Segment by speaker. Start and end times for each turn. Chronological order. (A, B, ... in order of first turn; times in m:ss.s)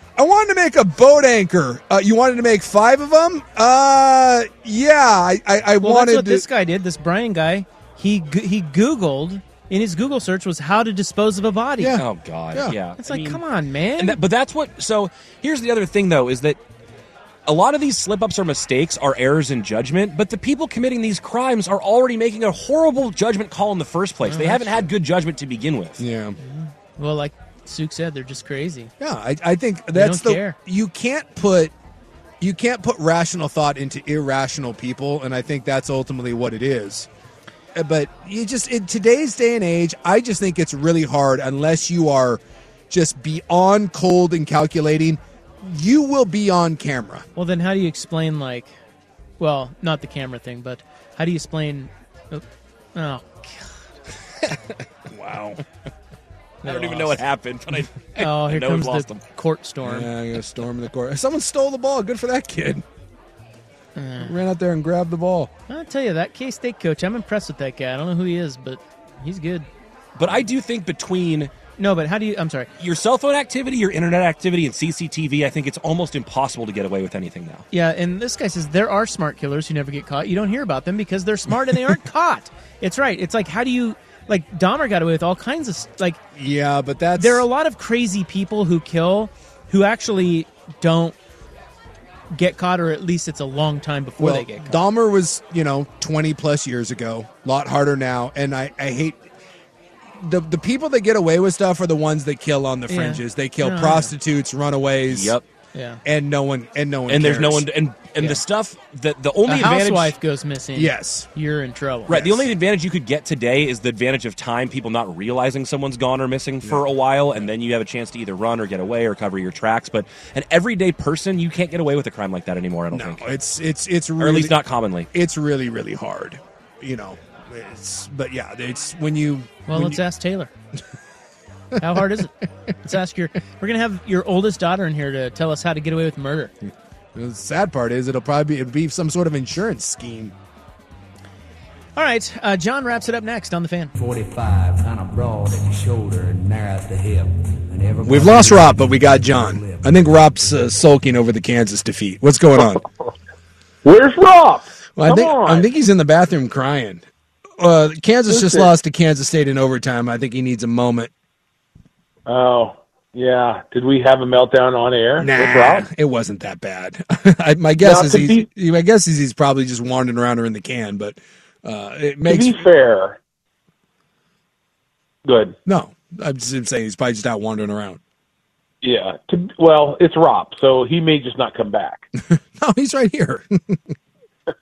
0:00.2-0:06.4 A
0:05.8-0:12.0 B
0:11.8-0:12.7 A
0:12.0-0:13.4 C
0:13.0-0:14.2 B
0:14.0-0:16.6 C
0:17.4-0:26.0 C
0:24.2-0:24.8 B
0:26.0-0:26.4 A
0:26.4-0:28.9 B
0:29.0-0:31.7 A
0:29.9-0:30.6 B
0:32.4-0:37.1 A
0:37.7-0:47.3 A
0:47.4-0:48.7 B
0:49.4-0:52.4 B
0:52.9-0:53.7 B
0:55.1-0:55.6 A
0:56.6-0:57.2 B
0:56.6-0:59.2 C
0:58.2-1:00.1 B
0:59.8-1:02.8 A
1:04.0-1:04.3 B
1:04.2-1:05.5 A
1:05.7-1:09.7 B
1:10.2-1:11.5 C
1:11.8-1:12.7 B
1:12.8-1:17.6 C
1:17.7-1:26.2 B
1:26.3-1:27.4 A
1:27.2-1:31.2 B
1:32.3-1:34.8 B
1:34.2-1:39.2 A
1:40.2-1:45.3 A
1:42.9-1:44.1 B
1:45.1-1:45.4 C
1:45.7-1:46.0 B
1:46.0-1:47.7 A
1:47.1-1:50.2 C
1:49.4-1:52.2 B
1:50.7-1:51.3 A
1:52.1-1:52.5 A
1:52.1-2:03.3 C
2:02.9-2:04.5 A
2:04.2-2:05.1 C
2:05.1-2:10.0 A
2:09.7-2:10.5 B
2:11.8-2:16.5 B
2:17.1-2:20.3 A
2:22.0-2:23.9 B
2:23.9-2:29.9 D
2:28.0-2:32.8 A
2:33.8-2:35.7 E
2:35.0-2:37.0 A
2:37.6-2:41.1 A
2:38.3-2:38.7 E
2:42.2-2:45.9 E
2:45.2-2:52.6 A
2:47.8-2:48.4 E
2:52.2-2:53.2 E
2:55.2-2:55.6 E
2:55.6-2:58.0 A
2:58.8-3:02.1 E
3:02.2-3:03.8 A